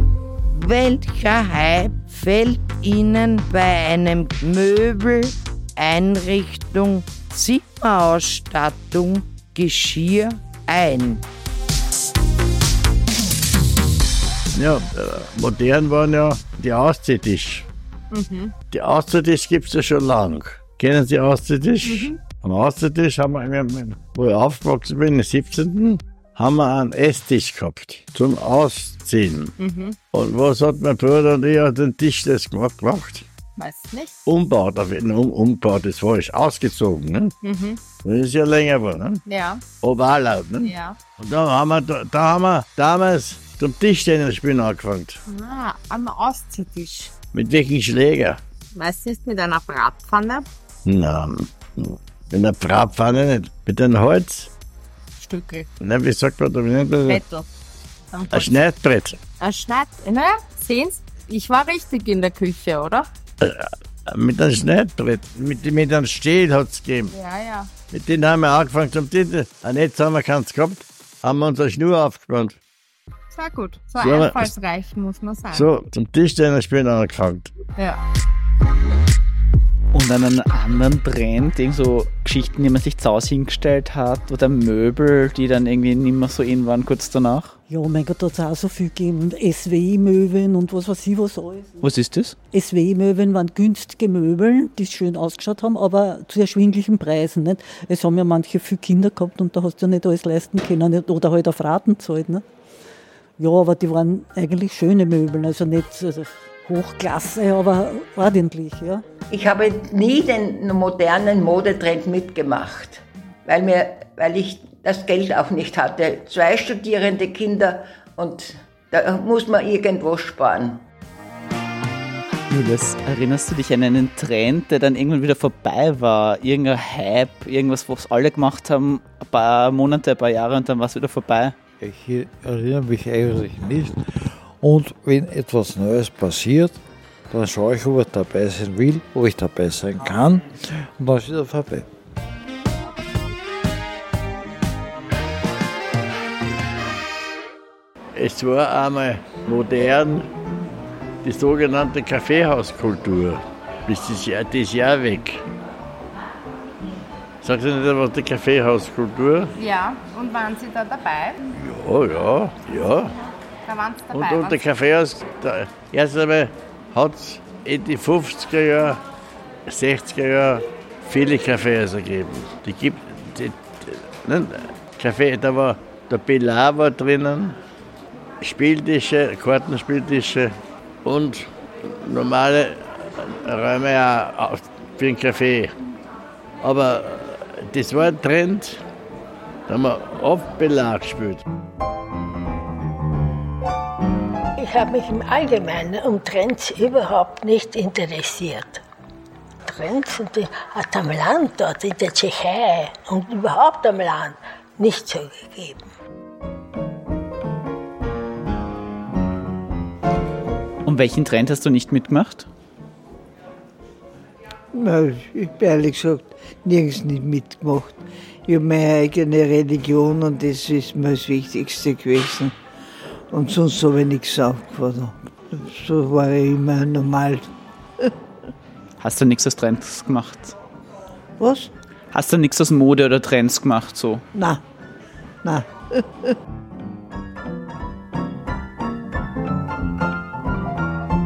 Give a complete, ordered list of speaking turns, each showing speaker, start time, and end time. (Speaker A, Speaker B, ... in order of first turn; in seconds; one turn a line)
Speaker A: 0.6-11.2
Speaker B: 14.5-17.7
Speaker C: 18.1-18.5
Speaker B: 18.7-29.5
Speaker C: 21.9-22.2
Speaker C: 29.6-29.9
Speaker B: 30.1-33.3
Speaker C: 33.5-34.2
Speaker B: 34.3-37.3
Speaker C: 37.4-37.8
Speaker B: 38.0-39.2
Speaker C: 39.3-39.6
Speaker B: 39.8-45.2
Speaker C: 40.6-41.0
Speaker C: 45.3-47.1
Speaker B: 47.3-48.4
Speaker C: 48.7-50.5
Speaker B: 50.9-54.5
Speaker C: 55.2-55.7
Speaker B: 55.8-57.2
Speaker C: 57.0-57.5
Speaker C: 58.1-58.5
Speaker B: 58.3-59.2
Speaker C: 59.4-63.1
Speaker B: 63.4-67.1
Speaker C: 67.1-67.7
Speaker B: 67.9-72.6
Speaker C: 73.3-75.7
Speaker B: 74.0-74.5
Speaker B: 75.5-77.5
Speaker C: 77.8-78.0
Speaker D: 79.9-87.5
Speaker E: 87.7-91.8
Speaker D: 91.8-92.3
Speaker E: 92.5-102.4
Speaker E: 103.4-109.0
Speaker F: 109.3-120.8
Speaker D: 122.5-131.6
Speaker G: 131.8-134.0
Speaker G: 134.6-136.7
Speaker G: 137.3-141.8
Speaker B: 148.2-150.3
Speaker B: 151.2-155.4
Speaker B: 157.4-159.5
Speaker C: 159.6-161.4
Speaker B: 161.6-163.1
Speaker C: 163.7-164.6
Speaker B: 164.1-169.0
Speaker B: 169.7-177.6
Speaker B: 178.4-180.5
Speaker B: 181.0-185.7
Speaker B: 186.6-188.8
Speaker B: 189.7-191.4
Speaker H: 194.6-198.8
Speaker H: 199.7-205.9
Speaker D: 210.8-212.5
Speaker I: 214.7-222.5
Speaker I: 223.3-227.5
Speaker D: 229.0-230.5
Speaker I: 231.4-231.7
Speaker D: 232.1-234.2
Speaker I: 234.3-234.6
Speaker I: 235.4-236.3